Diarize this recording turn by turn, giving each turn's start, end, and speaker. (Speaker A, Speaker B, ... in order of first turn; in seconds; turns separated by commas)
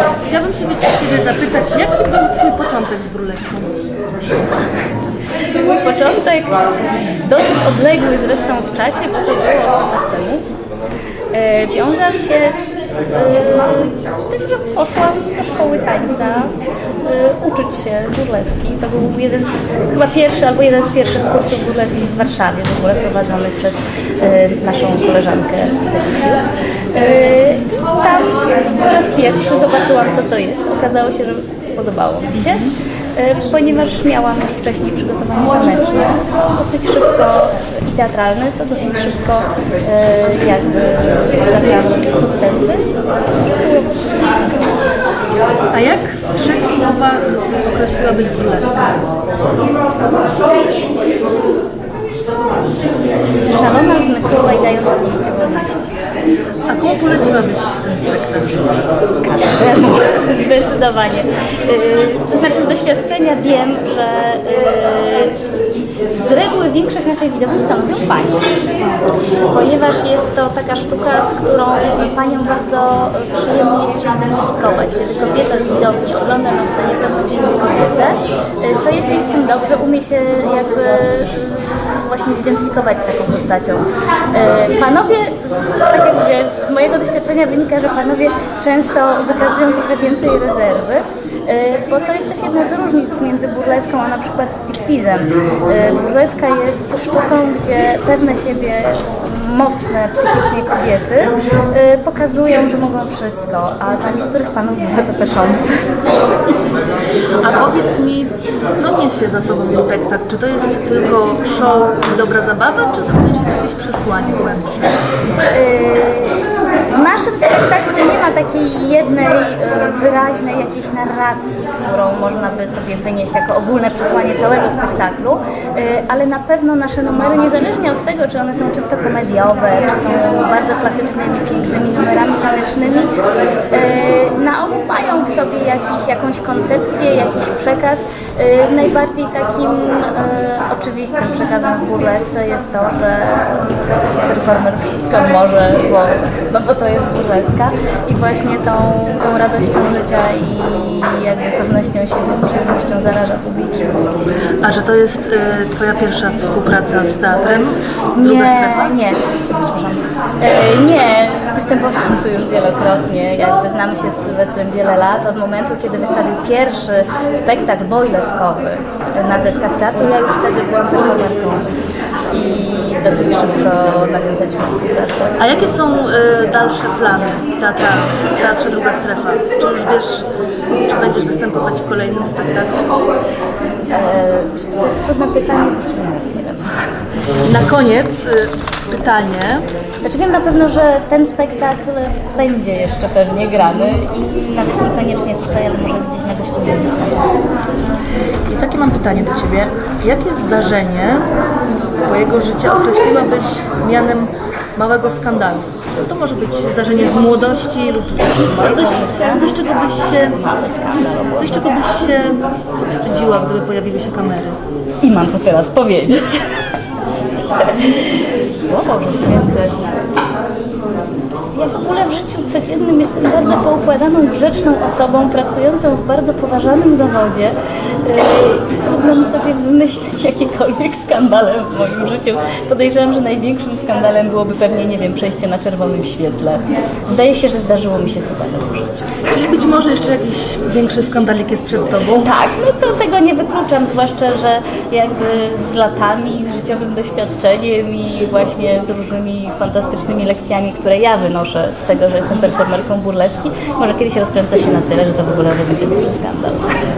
Speaker A: 0.2-3.8, Speaker B: 5.4-6.6, Speaker B: 7.2-10.4, Speaker B: 11.3-44.6, Speaker A: 32.4-32.7, Speaker A: 45.7-49.0, Speaker B: 53.4-55.9, Speaker A: 56.7-58.6, Speaker B: 59.2-65.4, Speaker B: 66.2-68.5, Speaker B: 69.5-105.9, Speaker A: 107.4-115.0, Speaker B: 115.5-133.1, Speaker B: 133.7-154.3, Speaker A: 154.6-159.0, Speaker B: 158.2-171.7, Speaker B: 172.3-175.6, Speaker A: 175.4-182.9, Speaker B: 183.9-186.9, Speaker A: 187.4-189.7, Speaker B: 190.0-197.3, Speaker A: 198.5-210.4, Speaker B: 208.5-209.6, Speaker B: 210.1-211.8, Speaker A: 211.4-214.6, Speaker B: 215.0-216.4, Speaker B: 217.6-219.8, Speaker B: 221.5-239.3, Speaker A: 239.3-242.3, Speaker B: 242.1-256.7